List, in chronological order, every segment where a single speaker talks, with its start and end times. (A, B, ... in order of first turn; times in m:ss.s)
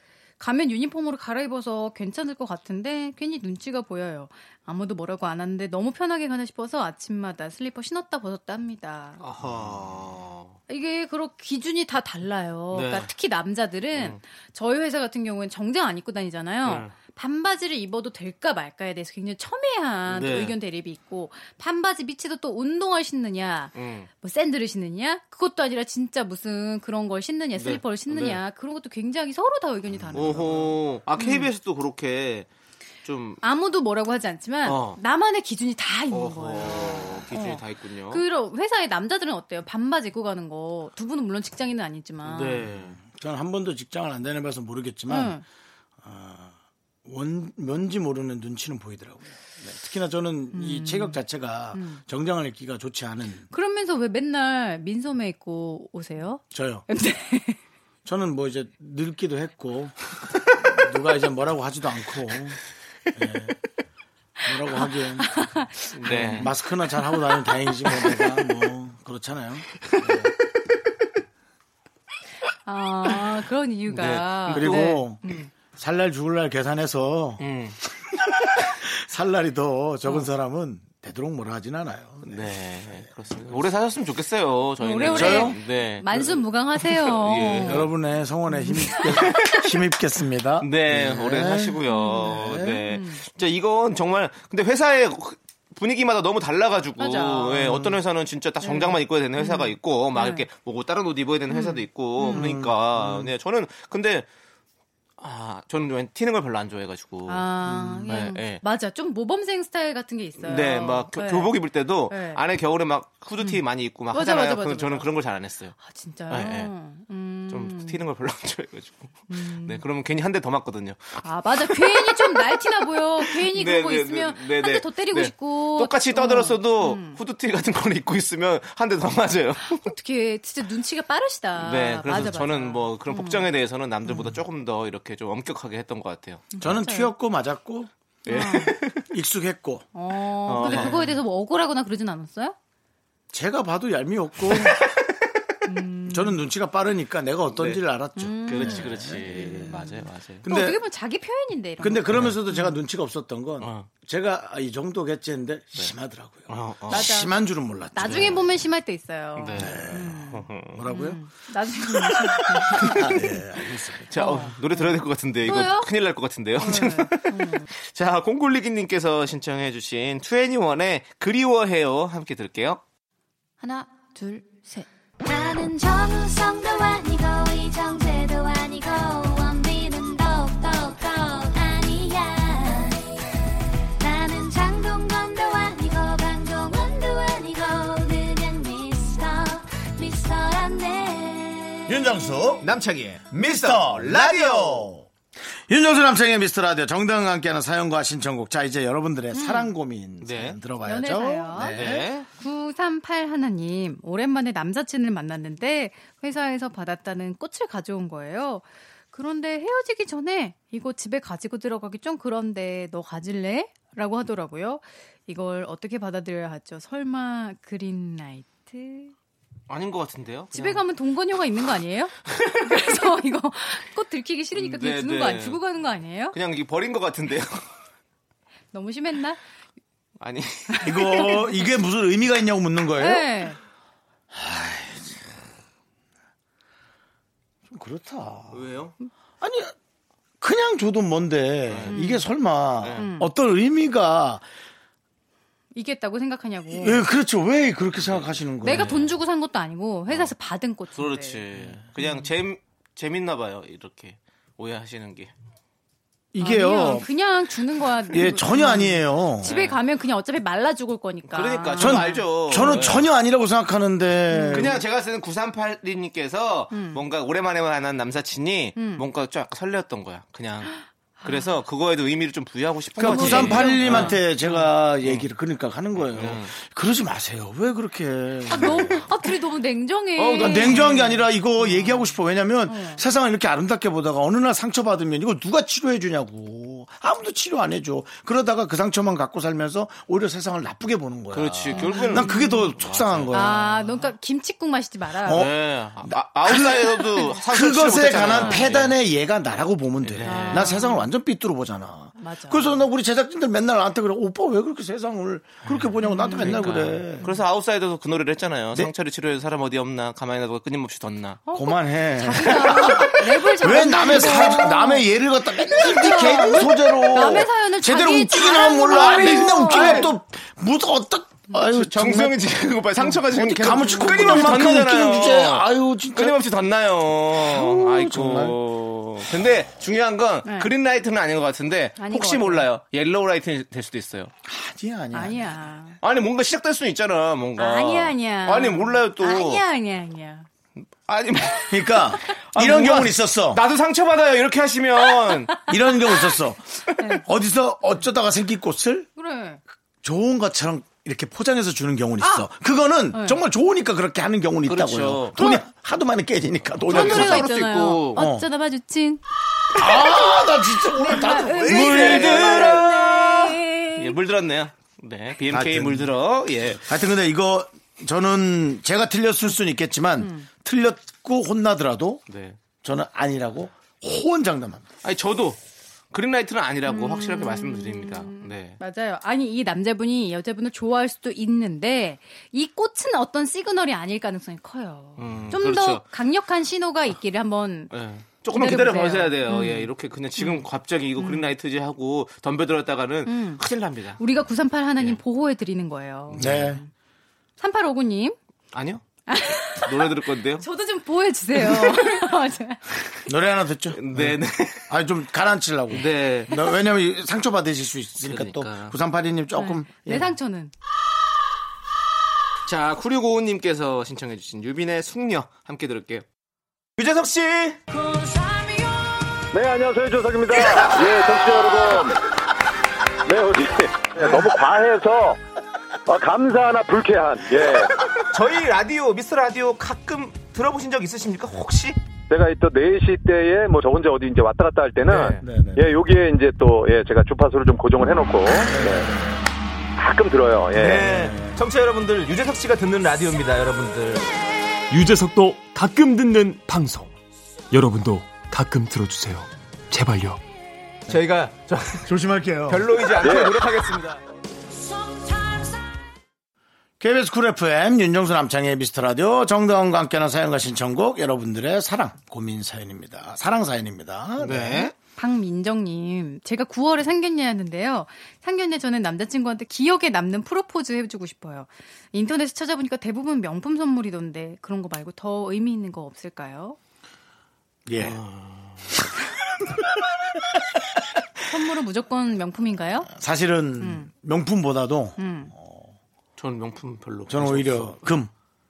0:00.4-0:09.2 A
0:09.2-0:10.6 B
0:10.7-0:31.5 A
0:12.7-0:13.1 B
0:16.6-0:16.9 B
0:20.1-0:20.5 B
0:23.8-0:24.1 B
0:27.6-0:28.4 B
0:30.1-0:32.5 B
0:33.0-0:33.4 B
0:33.4-0:42.7 A
0:34.6-0:35.0 B
0:36.1-0:38.2 B
0:42.2-0:43.0 B
0:43.0-0:45.4 C
0:45.1-0:45.4 A
0:46.0-0:46.5 C
0:47.0-0:53.5 C
0:50.5-0:51.2 A
0:51.7-0:52.0 A
0:53.5-0:57.6 A
0:56.5-0:56.8 C
0:58.0-1:00.0 C
1:00.6-1:02.6 C
1:03.1-1:03.6 C
1:04.4-1:05.4 C
1:04.8-1:07.4 A
1:05.9-1:06.5 B
1:06.0-1:10.3 C
1:12.7-1:15.5 A
1:13.9-1:14.9 B
1:14.5-1:15.2 C
1:15.7-1:17.4 C
1:17.4-1:17.8 B
1:18.1-1:22.5 C
1:22.2-1:27.9 B
1:24.8-1:27.9 A
1:25.1-1:25.6 C
1:27.6-1:32.8 C
1:28.5-1:29.4 A
1:29.2-1:29.6 B
1:30.6-1:44.3 B
1:31.9-1:33.2 A
1:37.0-1:37.8 A
1:37.6-1:38.0 C
1:38.6-1:40.5 A
1:41.5-1:42.6 A
1:42.3-1:43.3 C
1:45.2-1:47.5 B
1:47.3-1:51.6 A
1:47.7-1:48.0 C
1:48.1-1:48.6 B
1:50.4-1:55.8 B
1:52.1-1:52.4 A
1:53.4-1:55.1 A
1:55.8-1:58.0 A
1:56.3-1:56.7 B
1:57.5-2:02.6 B
1:59.3-1:59.8 A
2:01.2-2:07.2 A
2:03.2-2:09.9 B
2:09.7-2:13.5 A
2:11.6-2:16.5 B
2:14.1-2:14.3 A
2:16.5-2:17.1 A
2:16.6-2:17.9 C
2:18.3-2:19.0 B
2:18.3-2:18.8 A
2:19.1-2:19.9 C
2:20.0-2:22.6 A
2:20.5-2:21.1 B
2:20.6-2:21.0 C
2:23.3-2:24.8 C
2:24.7-2:25.1 B
2:25.7-2:26.4 A
2:26.1-2:29.8 C
2:27.5-2:27.8 B
2:28.2-2:32.8 A
2:28.4-2:30.4 B
2:30.4-2:30.8 C
2:31.8-2:38.4 C
2:33.6-2:33.9 B
2:36.5-2:37.1 B
2:36.9-2:37.3 A
2:37.9-2:43.4 A
2:38.0-2:38.4 B
2:39.4-2:40.8 B
2:39.6-2:40.2 C
2:40.7-2:41.2 C
2:42.7-2:43.1 B
2:42.7-2:44.1 C
2:44.0-2:52.8 B
2:44.2-2:45.9 A
2:46.6-2:47.7 A
2:53.9-2:54.5 D
2:55.2-3:03.0 D
3:04.0-3:12.0 D
3:11.9-3:12.7 C
3:12.6-3:14.9 B
3:13.3-3:15.1 C
3:15.7-3:22.0 C
3:19.3-3:19.7 A
3:20.2-3:20.6 B
3:20.8-3:39.1 A
3:21.6-3:22.3 B
3:39.7-3:40.8 B
3:40.5-3:46.4 A
3:42.4-3:42.6 B
3:44.6-3:45.6 B
3:46.3-3:47.7 B
3:48.7-3:49.4 A
3:50.2-3:50.9 B
3:50.7-3:51.6 A
3:50.8-3:53.3 C
3:53.0-3:53.6 A
3:54.3-3:55.3 C
3:57.7-3:58.6 C
3:58.5-3:59.0 B
3:59.4-3:59.7 C
4:00.4-4:04.4 C
4:01.7-4:02.0 B
4:01.9-4:02.2 A
4:02.8-4:03.1 B
4:03.0-4:03.3 A
4:05.8-4:07.1 A
4:06.7-4:09.0 C
4:08.0-4:09.1 B
4:08.6-4:11.4 A
4:11.0-4:15.3 B
4:12.0-4:12.3 A
4:16.3-4:17.1 C
4:16.4-4:22.2 A
4:18.1-4:19.5 C
4:19.4-4:19.8 B
4:21.3-4:23.0 B
4:21.8-4:24.8 C
4:24.3-4:24.8 A
4:24.5-4:34.2 B
4:26.7-4:27.0 A
4:28.8-4:29.0 A
4:31.2-4:31.5 A
4:33.0-4:39.2 C
4:33.0-4:34.7 A
4:36.0-4:36.5 B
4:38.5-4:42.2 A
4:40.2-4:40.8 B
4:40.4-4:53.9 C
4:42.7-4:43.0 A
4:51.3-4:53.6 B
4:51.7-4:52.7 A
4:53.3-4:55.5 A
4:55.2-5:07.3 C
4:55.3-4:58.9 B
4:58.3-4:58.7 A
5:00.0-5:00.7 B
5:00.2-5:01.1 A
5:02.2-5:02.8 A
5:05.6-5:11.4 B
5:06.0-5:07.3 A
5:11.5-5:20.1 A
5:11.5-5:22.4 C
5:18.9-5:20.1 B
5:21.6-5:34.3 B
5:23.0-5:24.6 A
5:23.3-5:26.4 C
5:27.4-5:28.6 C
5:30.5-5:30.7 A
5:32.0-5:32.7 A
5:34.4-5:35.5 C
5:35.1-5:36.0 A
5:36.0-5:39.6 B
5:37.6-5:40.5 A
5:40.8-5:42.0 B
5:41.7-5:43.6 C
5:42.5-5:45.6 B
5:45.7-5:49.1 C
5:47.0-5:47.2 A
5:49.2-5:49.6 A
5:50.0-5:57.5 C
5:52.2-5:52.5 A
5:53.1-5:53.4 A
5:54.7-5:55.4 B
5:55.4-5:55.6 A
5:56.8-5:58.2 B
5:56.9-5:59.2 A
5:58.2-5:58.5 C
5:59.7-6:03.1 C
5:59.8-6:04.2 A
6:01.5-6:06.9 B
6:05.5-6:06.1 C
6:06.8-6:12.2 C
6:10.2-6:10.5 A
6:12.3-6:12.6 B
6:12.8-6:14.9 C
6:15.0-6:15.6 B
6:16.1-6:18.8 B
6:16.9-6:27.9 A
6:25.2-6:26.0 B
6:27.9-6:34.2 B
6:28.5-6:31.5 A
6:33.3-6:33.6 A
6:34.2-6:36.9 A
6:36.3-6:36.6 B
6:36.4-6:36.8 C
6:37.6-6:38.4 A
6:38.7-6:39.0 B
6:39.3-6:43.2 A
6:39.8-6:40.6 B
6:43.3-6:50.3 C
6:43.9-6:44.9 B
6:45.9-6:46.6 B
6:48.2-6:49.0 B
6:49.6-6:50.7 A
6:52.7-6:56.2 B
6:57.0-6:57.8 B
6:59.5-7:02.2 E
7:03.2-7:05.4 E
7:06.1-7:08.0 E
7:08.0-7:12.0 B
7:12.3-7:19.1 E
7:15.1-7:15.4 B
7:15.4-7:15.9 C
7:18.6-7:19.3 C
7:20.0-7:21.1 E
7:20.8-7:24.3 B
7:20.9-7:21.6 C
7:24.9-7:27.1 F
7:27.7-7:30.4 F
7:31.1-7:32.1 B
7:32.0-7:33.0 C
7:32.7-7:34.2 B
7:33.2-7:33.5 E
7:37.0-7:44.9 C
7:44.4-7:44.9 B
7:45.2-7:56.8 A
7:57.9-7:58.2 C
7:58.0-7:58.9 B
7:58.9-7:59.8 C
8:01.5-8:03.1 A
8:03.1-8:05.9 C
8:03.8-8:04.1 A
8:05.2-8:05.5 A
8:06.4-8:08.1 B
8:07.3-8:08.3 C